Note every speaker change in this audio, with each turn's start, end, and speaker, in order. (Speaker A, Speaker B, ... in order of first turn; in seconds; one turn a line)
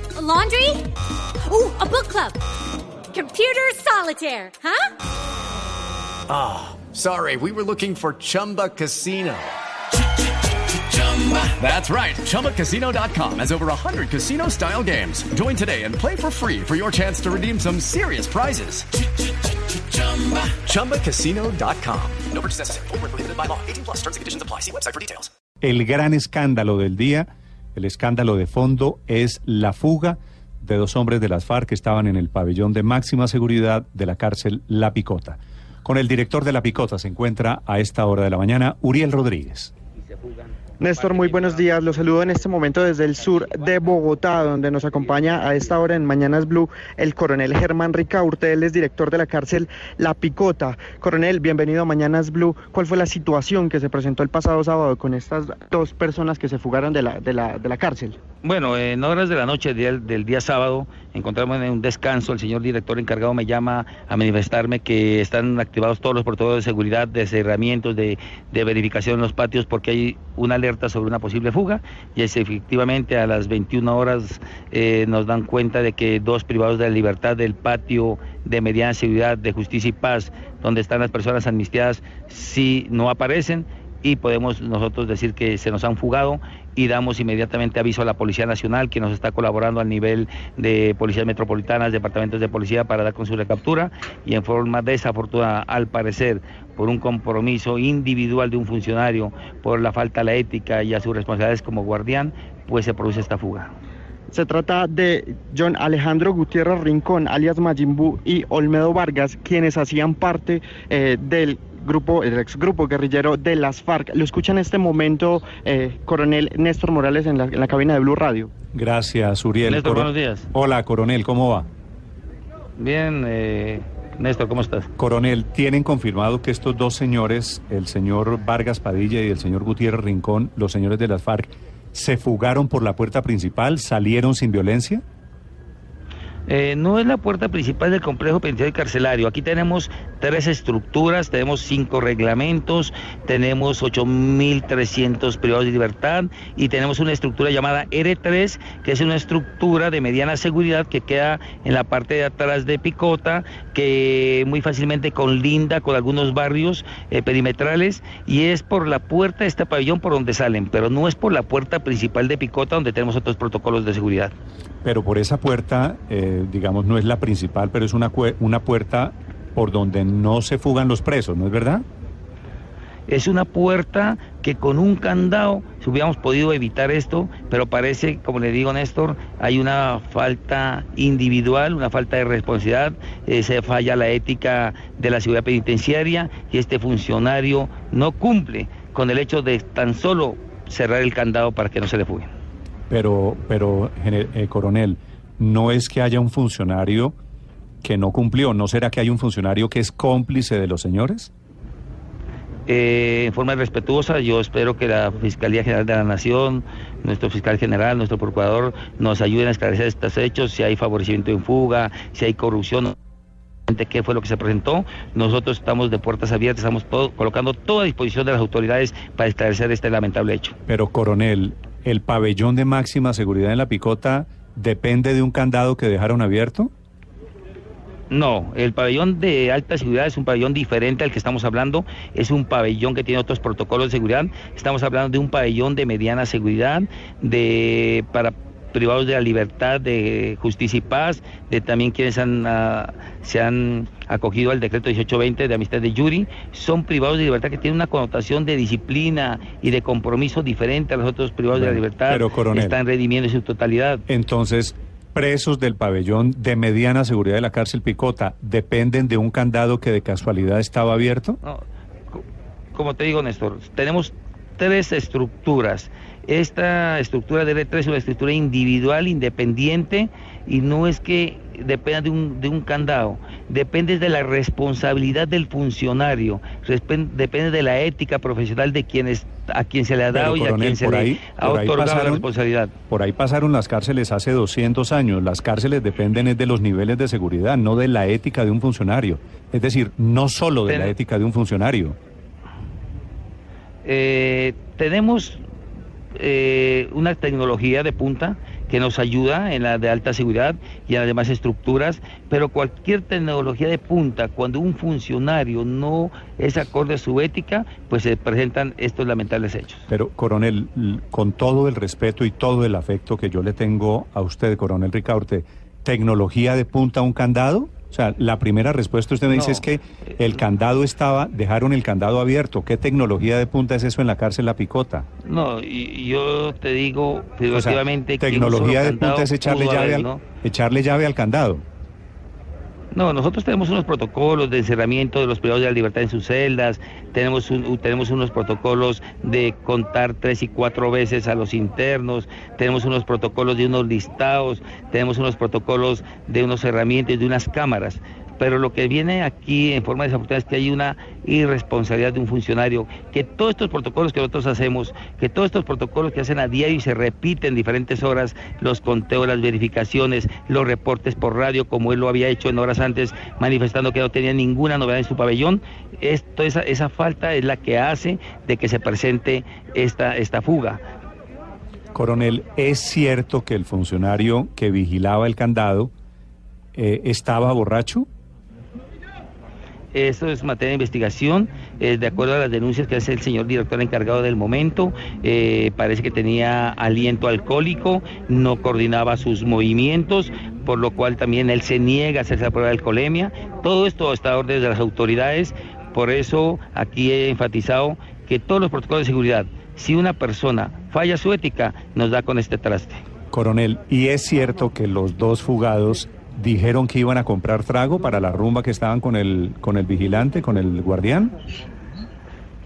Speaker A: 0.1-0.8
Speaker A: 1.4-2.4
Speaker A: 3.1-4.9
Speaker B: 6.3-9.5
Speaker B: 10.7-25.3
Speaker C: 25.6-39.7
Speaker D: 40.8-58.2
Speaker E: 41.2-42.0
Speaker E: 58.4-103.7
Speaker D: 104.3-118.5
Speaker C: 118.7-121.7
Speaker E: 119.6-120.5
Speaker E: 122.8-124.9
Speaker C: 125.0-135.0
Speaker E: 136.5-164.3
Speaker C: 164.8-171.8
Speaker E: 173.1-192.3
Speaker C: 192.9-197.2
Speaker C: 197.8-201.3
Speaker E: 202.7-212.9
Speaker E: 213.7-220.6
Speaker C: 220.7-226.7
Speaker E: 228.1-254.0
Speaker C: 251.5-252.8
Speaker C: 254.1-261.4
Speaker E: 261.4-262.2
Speaker E: 262.7-282.7
Speaker C: 280.1-282.3
Speaker C: 282.9-292.0
Speaker E: 290.7-290.9
Speaker E: 293.8-295.4
Speaker E: 296.1-309.9
Speaker C: 309.9-325.1
Speaker E: 319.3-319.6
Speaker E: 325.2-330.2
Speaker C: 327.5-331.6
Speaker E: 332.9-370.8
Speaker C: 371.9-375.9
Speaker C: 376.7-378.1
Speaker E: 379.9-403.0
Speaker C: 403.3-411.3